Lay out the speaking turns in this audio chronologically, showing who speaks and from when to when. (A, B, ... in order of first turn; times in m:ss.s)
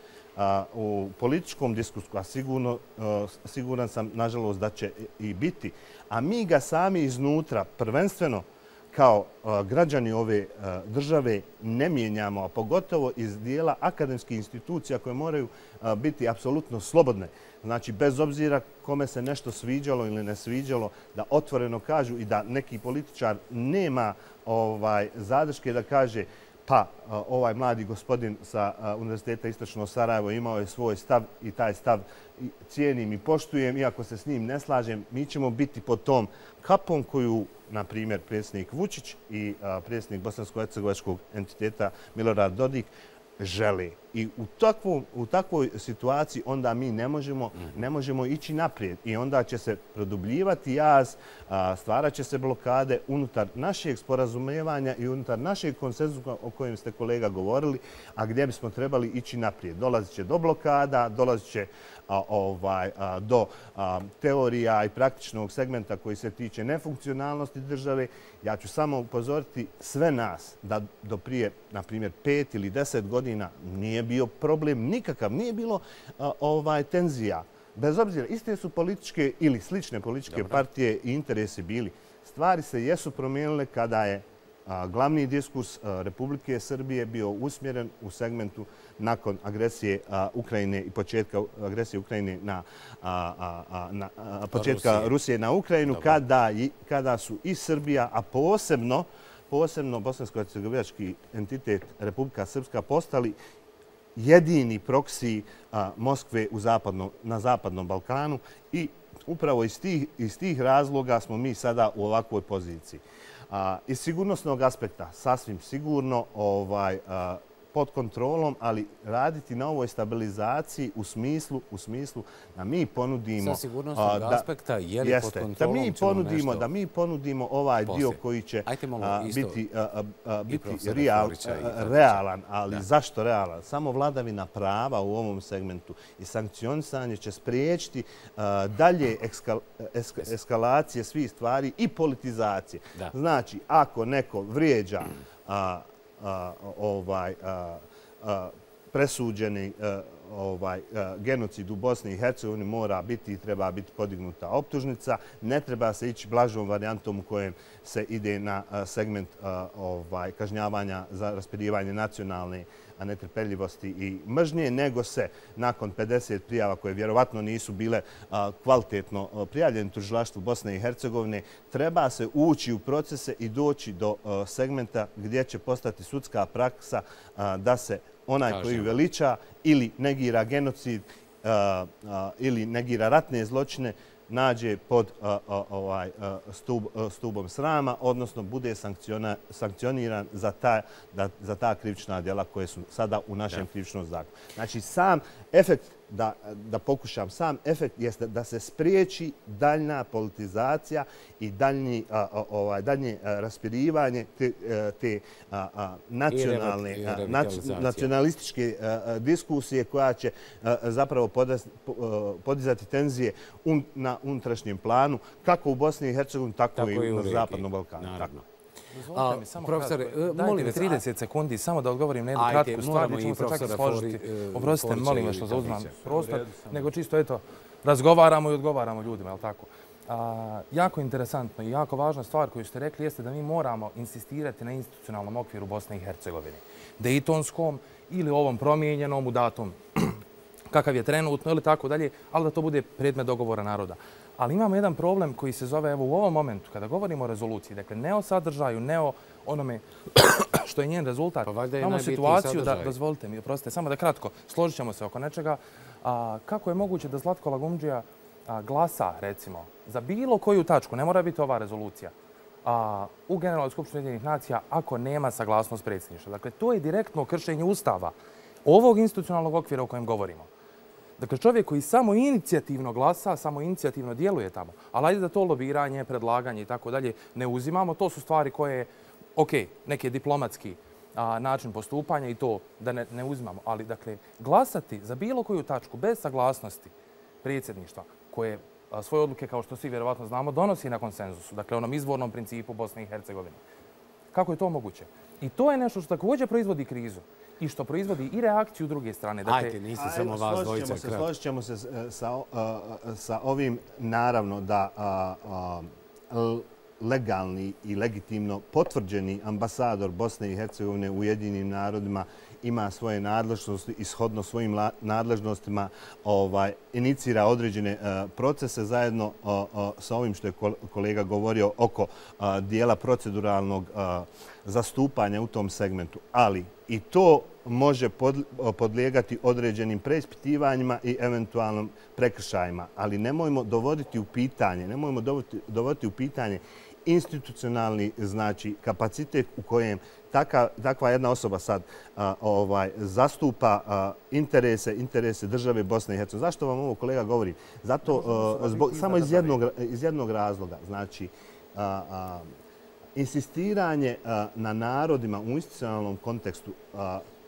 0:00.4-1:43.4 A
1:34.5-1:35.1 B
1:44.2-2:04.5 A
2:03.4-2:06.7 B
2:05.0-3:38.4 A
2:07.9-2:09.6 B
2:10.5-2:12.8 B
2:58.5-2:59.0 B
3:26.3-3:28.1 B
3:36.8-3:38.4 B
3:38.9-4:00.2 C
3:39.1-3:41.0 B
3:42.4-3:46.9 B
4:00.7-4:22.1 C
4:11.4-4:13.0 B
4:22.6-4:30.5 C
4:31.2-4:53.6 C
4:54.3-4:59.8 C
4:59.4-5:01.3 B
5:00.0-5:52.5 A
5:48.1-5:49.5 C
5:53.2-5:57.2 A